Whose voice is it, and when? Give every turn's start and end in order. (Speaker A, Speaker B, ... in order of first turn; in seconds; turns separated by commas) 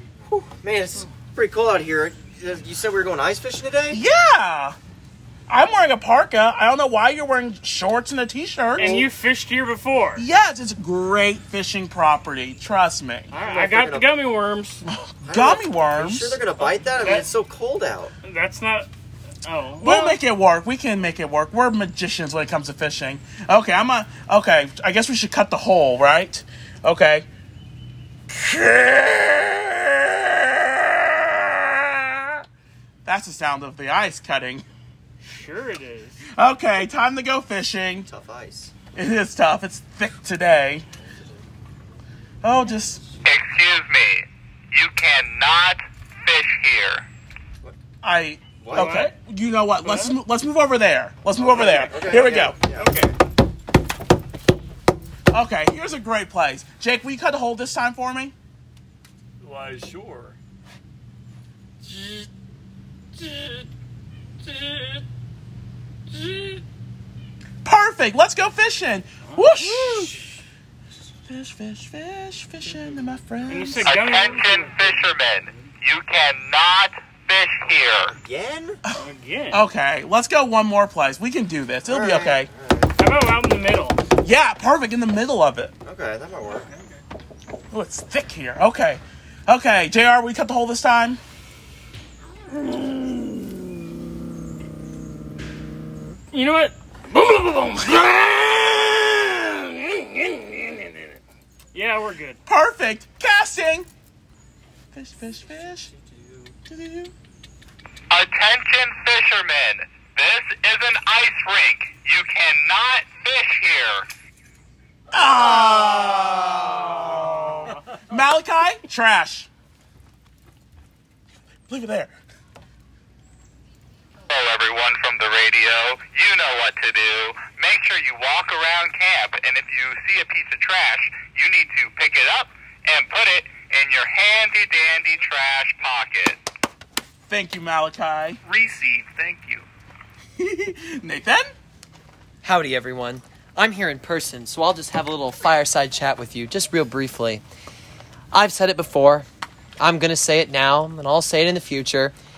Speaker A: 0.3-4.0, Speaker B: 3.9-4.8, Speaker B: 5.5-9.0, Speaker C: 8.8-10.2, Speaker A: 8.8-9.1, Speaker B: 10.2-13.3, Speaker C: 13.3-14.8, Speaker A: 13.3-14.2, Speaker B: 14.9-16.4, Speaker A: 15.2-18.1, Speaker C: 16.6-17.3, Speaker C: 18.2-18.9, Speaker C: 19.4-20.2, Speaker B: 19.8-27.2, Speaker B: 28.3-32.2, Speaker B: 33.0-34.6, Speaker C: 35.2-36.2, Speaker B: 36.2-38.1, Speaker A: 38.0-38.7, Speaker B: 38.9-40.9, Speaker B: 42.4-43.0, Speaker D: 43.2-47.0, Speaker B: 48.0-52.6, Speaker A: 48.6-49.0, Speaker C: 48.7-49.1, Speaker C: 49.8-50.1, Speaker A: 51.4-53.0, Speaker C: 52.8-53.1, Speaker B: 55.3-58.3, Speaker C: 59.4-60.3, Speaker C: 61.9-62.2, Speaker C: 63.2-63.6, Speaker C: 64.5-64.9, Speaker C: 66.1-66.5, Speaker B: 67.6-70.2, Speaker C: 69.2-69.5, Speaker B: 71.3-73.9, Speaker C: 73.5-75.1, Speaker D: 73.8-78.1, Speaker A: 78.1-78.8, Speaker B: 78.9-82.5, Speaker C: 79.0-79.6, Speaker A: 81.8-82.9, Speaker C: 83.0-84.0, Speaker B: 84.2-85.7, Speaker A: 85.8-86.7, Speaker B: 87.7-91.2, Speaker C: 96.3-101.0, Speaker C: 101.7-102.4, Speaker B: 102.5-103.9, Speaker B: 104.9-105.9, Speaker A: 105.5-106.6, Speaker B: 106.7-107.1, Speaker D: 108.1-114.0, Speaker B: 115.1-119.5, Speaker A: 115.4-116.3, Speaker B: 121.7-122.1, Speaker D: 124.3-136.4, Speaker B: 137.2-138.4, Speaker D: 138.4-139.6, Speaker B: 140.4-141.5, Speaker E: 142.4-147.4, Speaker E: 148.3-149.3, Speaker E: 149.8-152.1